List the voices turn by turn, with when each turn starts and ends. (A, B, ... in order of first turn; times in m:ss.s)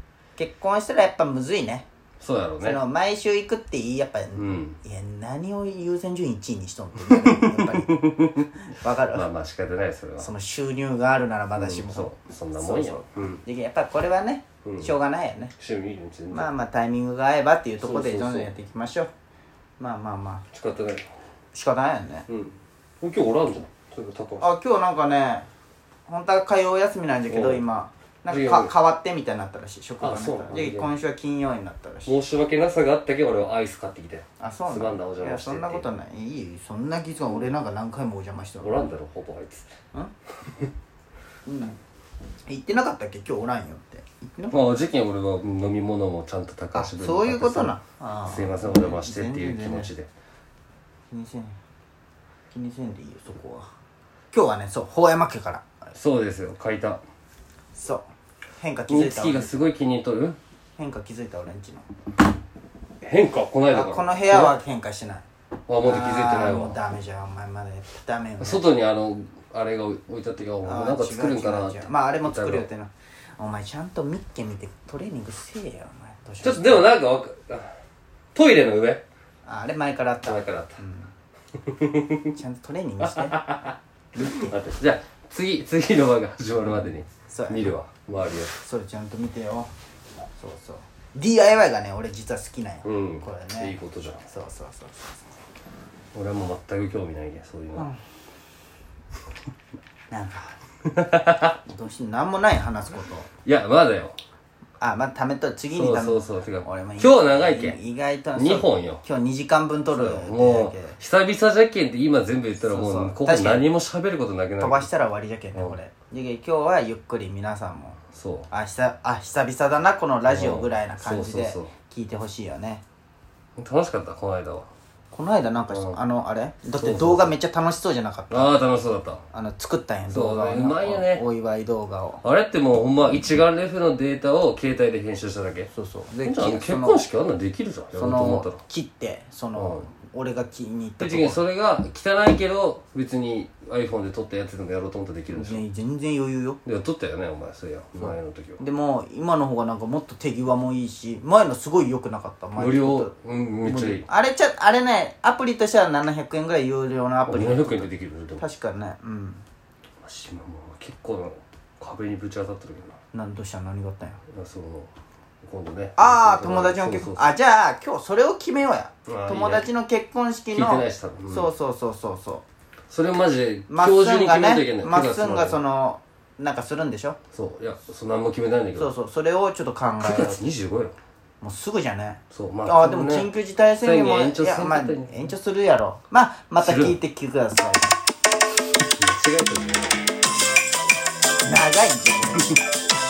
0:00.4-0:01.9 A
0:02.2-0:02.8 B
0:02.6-0:09.3 A
0:04.4-0:04.8 B
0:07.0-0:08.5 B
0:09.1-0:10.3 B
0:10.2-0:15.5 A
0:11.6-0:13.4 B
0:14.6-0:14.9 B
0:15.6-0:16.5 B
0:16.3-0:19.1 A
0:17.8-0:18.5 B
0:19.8-0:20.5 A
0:20.5-0:21.1 B
0:21.5-0:22.3 A
0:22.3-0:24.5 B
0:24.4-0:25.5 A
0:26.1-0:32.2 A
0:27.3-0:27.6 B
0:28.3-0:28.7 B
0:30.0-0:30.9 B
0:32.0-0:35.8 B
0:34.4-0:38.8 A
0:38.6-0:39.7 B
0:41.5-0:41.8 A
0:42.5-0:44.6 A
0:44.5-0:50.1 B
0:46.8-0:49.9 A
0:51.1-0:51.6 A
0:52.5-0:53.7 A
0:54.3-0:55.7 A
0:55.9-0:57.0 B
0:57.8-0:58.0 A
0:58.6-0:59.7 A
0:58.9-1:00.4 B
1:00.8-1:01.9 A
1:03.0-1:04.6 B
1:03.7-1:05.2 A
1:05.7-1:06.8 B
1:05.8-1:08.6 A
1:08.4-1:12.7 B
1:10.6-1:16.9 A
1:16.4-1:17.7 B
1:18.3-1:19.0 B
1:19.4-1:21.1 A
1:20.2-1:20.8 B
1:21.5-1:22.4 B
1:22.4-1:23.5 A
1:23.0-1:28.5 B
1:24.2-1:24.5 A
1:27.3-1:27.7 A
1:28.6-1:29.7 A
1:30.4-1:33.8 A
1:32.8-1:34.3 B
1:34.2-1:35.2 A
1:36.1-1:37.9 B
1:40.1-1:40.6 A
1:40.8-1:41.6 B
1:41.6-1:43.3 A
1:43.4-1:44.2 B
1:44.8-1:51.0 A
1:45.7-1:47.8 B
1:48.4-1:49.0 B
1:49.9-1:54.9 B
1:52.6-1:53.7 A
1:54.6-2:02.8 A
1:58.1-1:58.5 B
2:00.3-2:01.7 B
2:03.6-2:04.7 B
2:05.1-2:08.6 A
2:05.7-2:06.0 B
2:06.8-2:07.3 B
2:08.3-2:09.2 B
2:09.3-2:12.2 A
2:10.1-2:11.2 B
2:12.2-2:15.7 B
2:15.7-2:17.0 A
2:16.2-2:18.6 B
2:17.9-2:21.4 A
2:19.6-2:19.9 B
2:21.0-2:25.6 B
2:25.3-2:26.6 A
2:26.6-2:28.6 B
2:28.0-2:39.4 A
2:32.6-2:34.1 B
2:37.3-2:38.4 B
2:40.0-2:43.0 B
2:43.1-2:44.2 A
2:44.3-2:44.9 B
2:45.4-2:47.3 B
2:46.0-2:52.4 A
2:49.1-2:49.7 B
2:50.5-2:51.5 B
2:52.9-2:55.6 B
2:53.7-2:57.2 A
2:57.3-2:58.9 B
2:58.8-3:00.4 A
3:00.0-3:00.9 B
3:01.4-3:08.0 A
3:02.3-3:05.2 B
3:06.6-3:07.0 B
3:09.0-3:10.0 B
3:11.4-3:12.6 A